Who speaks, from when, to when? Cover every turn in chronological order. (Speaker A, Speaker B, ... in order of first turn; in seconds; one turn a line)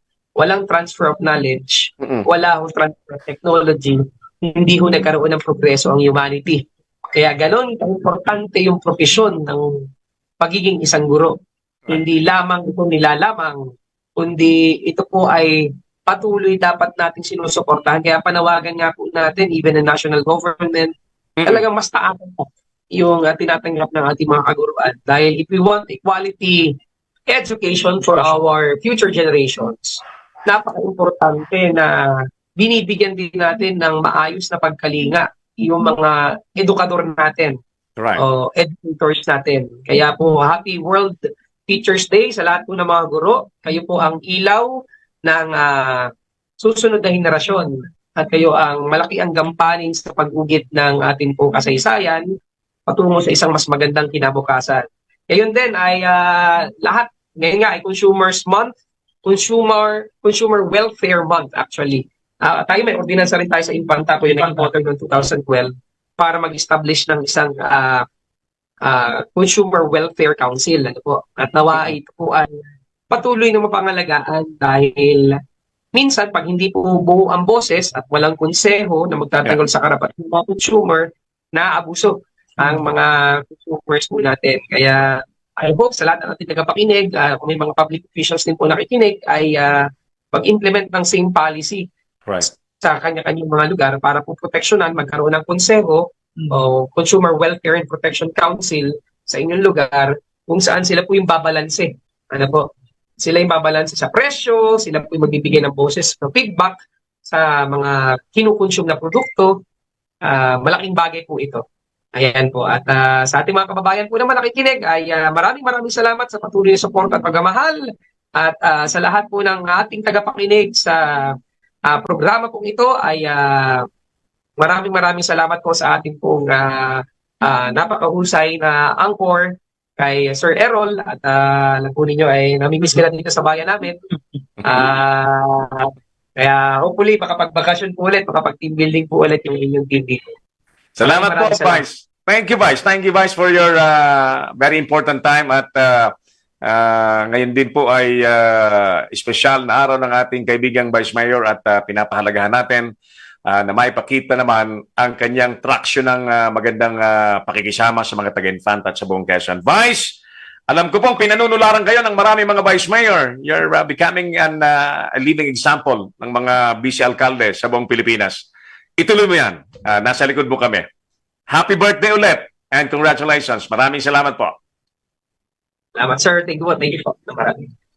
Speaker A: 0.4-9.9
Speaker B: 2.0-2.3
Speaker A: 10.4-11.3
Speaker A: 11.9-13.6
Speaker A: 14.2-20.9
Speaker B: 21.4-21.6
Speaker A: 21.5-26.8
Speaker A: 27.3-37.6
Speaker B: 38.0-38.2
Speaker A: 38.2-44.7
Speaker A: 45.2-52.3
Speaker A: 52.9-68.1
Speaker A: 68.8-72.5
Speaker A: 73.1-75.4
Speaker A: 75.9-91.9
Speaker A: 92.5-102.7
Speaker A: 103.2-109.5
Speaker A: 110.2-111.6
Speaker A: 112.2-117.8
Speaker A: 118.4-121.3
Speaker A: 121.9-123.9
Speaker A: 124.6-134.0
Speaker A: 134.6-140.3
Speaker B: 141.0-152.9
Speaker A: 141.0-141.8
Speaker B: 153.5-160.2
Speaker B: 160.7-168.5
Speaker B: 169.0-170.8
Speaker B: 171.5-174.5
Speaker A: 176.0-177.7